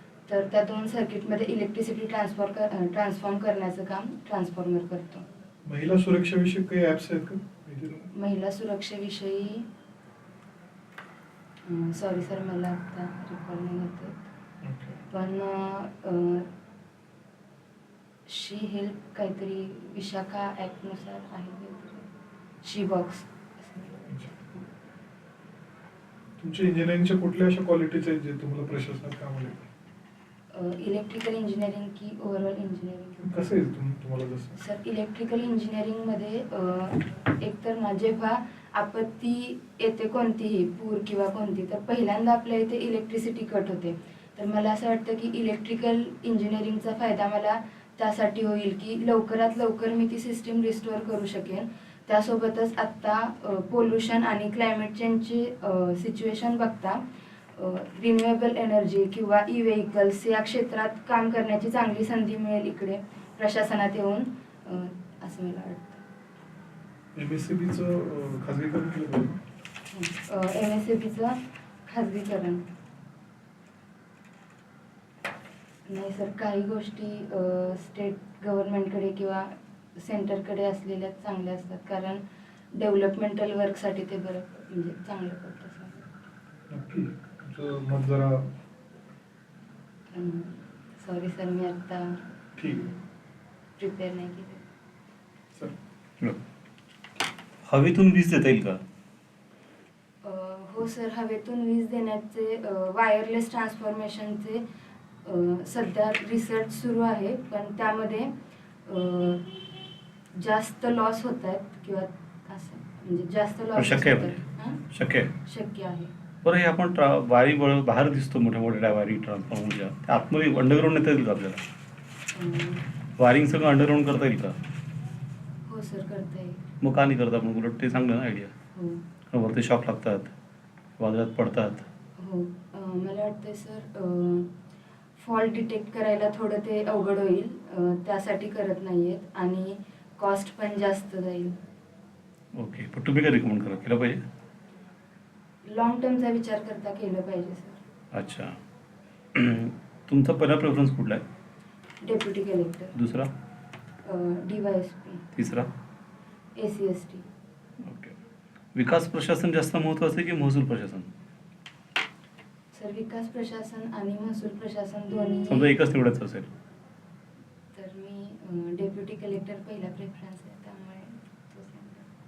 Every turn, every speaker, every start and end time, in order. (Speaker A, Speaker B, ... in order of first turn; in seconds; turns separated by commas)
Speaker A: 0.3-5.2, Speaker B: 5.7-8.1, Speaker A: 8.2-9.7, Speaker A: 11.7-14.3, Speaker B: 14.6-15.0, Speaker A: 15.1-16.5, Speaker A: 18.3-22.1, Speaker A: 22.6-24.6, Speaker B: 24.1-24.3, Speaker B: 26.4-29.6, Speaker A: 30.5-33.2, Speaker B: 33.2-34.6, Speaker A: 34.6-57.0, Speaker A: 57.6-66.0, Speaker B: 67.2-69.4, Speaker A: 69.9-72.7, Speaker A: 75.9-82.2, Speaker A: 82.7-86.1, Speaker B: 86.7-88.5, Speaker A: 90.1-93.0, Speaker B: 92.6-92.8, Speaker A: 93.8-94.7, Speaker C: 97.7-98.8, Speaker A: 100.2-104.6, Speaker A: 105.2-108.3, Speaker A: 108.9-109.5, Speaker A: 110.4-114.8, Speaker C: 113.8-114.4, Speaker C: 114.9-115.3, Speaker A: 115.4-116.1, Speaker C: 116.4-121.6, Speaker A: 122.3-122.8, Speaker C: 123.2-124.6, Speaker A: 125.7-126.7, Speaker C: 126.8-128.5, Speaker A: 128.8-129.0, Speaker C: 129.3-130.3, Speaker C: 131.0-131.9, Speaker A: 132.2-134.5, Speaker A: 135.2-141.6, Speaker C: 142.6-144.2, Speaker A: 145.7-147.8, Speaker C: 148.1-148.6, Speaker C: 149.3-151.2, Speaker A: 152.0-152.9, Speaker C: 152.9-153.3, Speaker A: 154.1-155.2, Speaker C: 155.3-155.7, Speaker A: 156.6-157.2, Speaker C: 157.8-158.1, Speaker C: 158.8-161.1, Speaker A: 162.7-165.7, Speaker C: 165.5-166.5, Speaker A: 167.7-172.1